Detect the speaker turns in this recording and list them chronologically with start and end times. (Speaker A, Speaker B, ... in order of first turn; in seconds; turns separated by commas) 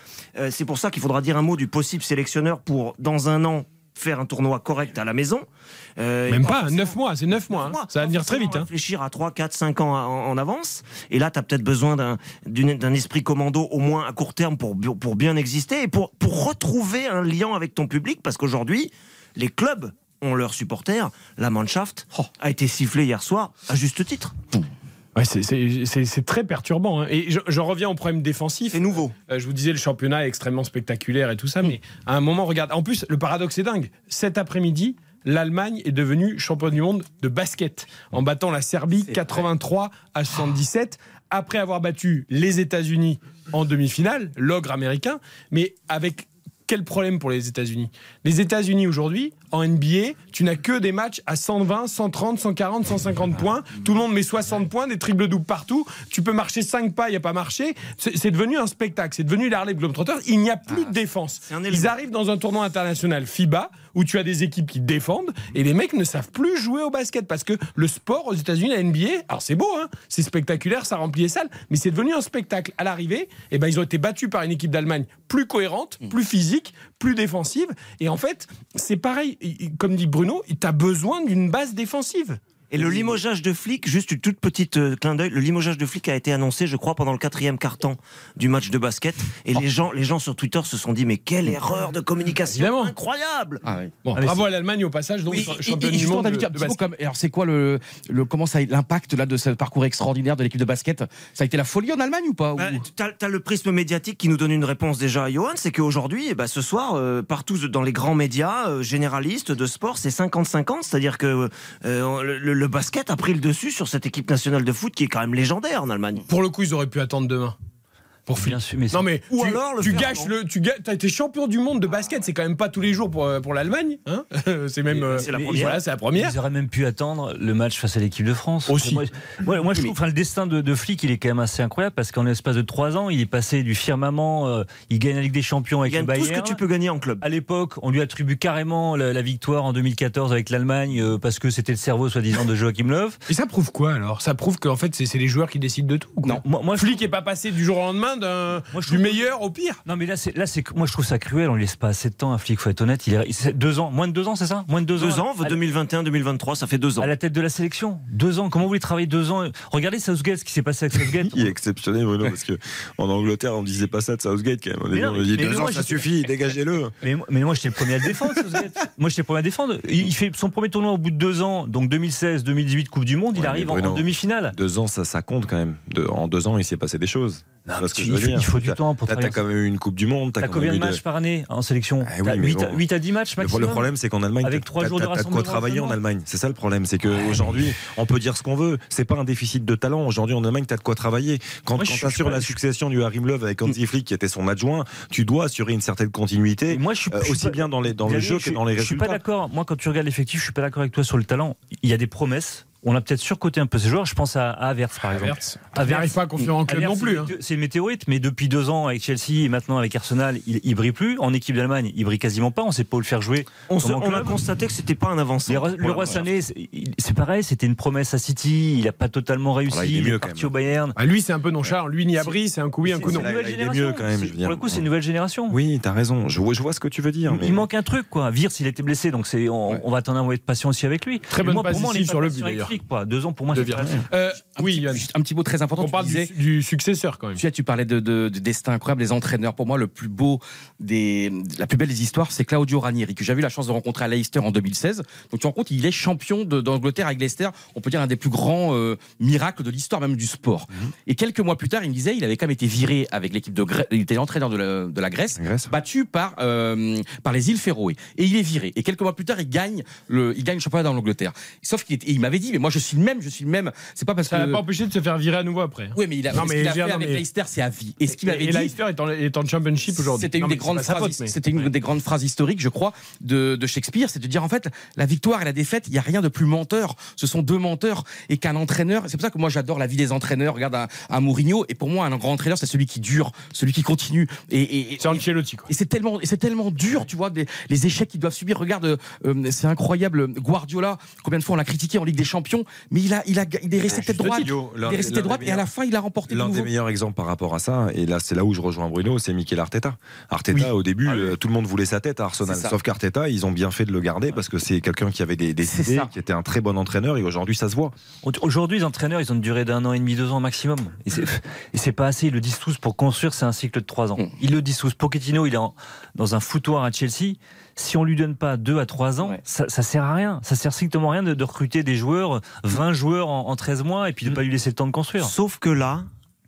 Speaker A: 0.4-5.5, Speaker A: 6.0-24.4, Speaker B: 6.3-8.7, Speaker B: 25.1-82.4, Speaker A: 28.7-29.1, Speaker A: 61.4-62.0, Speaker A: 82.7-93.6, Speaker B: 92.5-92.9, Speaker C: 93.6-94.0, Speaker B: 94.0-96.8, Speaker D: 94.2-94.4, Speaker C: 95.3-102.8, Speaker A: 102.6-116.2, Speaker B: 116.3-117.6, Speaker B: 118.3-126.3, Speaker D: 118.4-119.1, Speaker A: 119.3-120.3, Speaker A: 124.9-125.7, Speaker D: 125.2-136.6, Speaker B: 128.7-129.0, Speaker A: 135.9-137.2, Speaker D: 137.2-143.2, Speaker B: 143.3-149.8, Speaker D: 146.4-147.0, Speaker D: 148.7-149.3, Speaker D: 149.9-155.7, Speaker A: 155.0-157.1, Speaker D: 157.0-161.6, Speaker E: 161.1-166.9, Speaker D: 164.9-166.1, Speaker D: 167.0-174.6, Speaker E: 173.3-181.0, Speaker D: 177.7-179.4, Speaker D: 180.4-183.9, Speaker E: 182.0-182.8, Speaker E: 183.4-199.2, Speaker D: 184.4-186.0, Speaker B: 191.8-192.5, Speaker D: 196.7-214.4, Speaker B: 205.1-207.3, Speaker A: 213.7-216.2, Speaker D: 215.5-220.9, Speaker E: 219.7-220.5, Speaker B: 221.0-223.3, Speaker D: 222.2-225.6, Speaker E: 223.1-224.8, Speaker E: 225.5-227.6, Speaker D: 227.3-234.1, Speaker B: 231.3-232.7, Speaker B: 233.5-235.1, Speaker C: 234.6-236.3, Speaker B: 235.8-237.4, Speaker C: 237.4-264.6, Speaker E: 255.4-255.7, Speaker B: 264.3-267.2, Speaker C: 265.9-268.7, Speaker B: 268.1-271.3, Speaker C: 269.9-296.7, Speaker B: 285.0-285.7, Speaker E: 293.8-295.7, Speaker E: 296.3-308.0, Speaker C: 300.5-301.3, Speaker C: 302.4-302.8, Speaker C: 305.6-306.1, Speaker D: 308.2-325.3, Speaker A: 325.2-326.1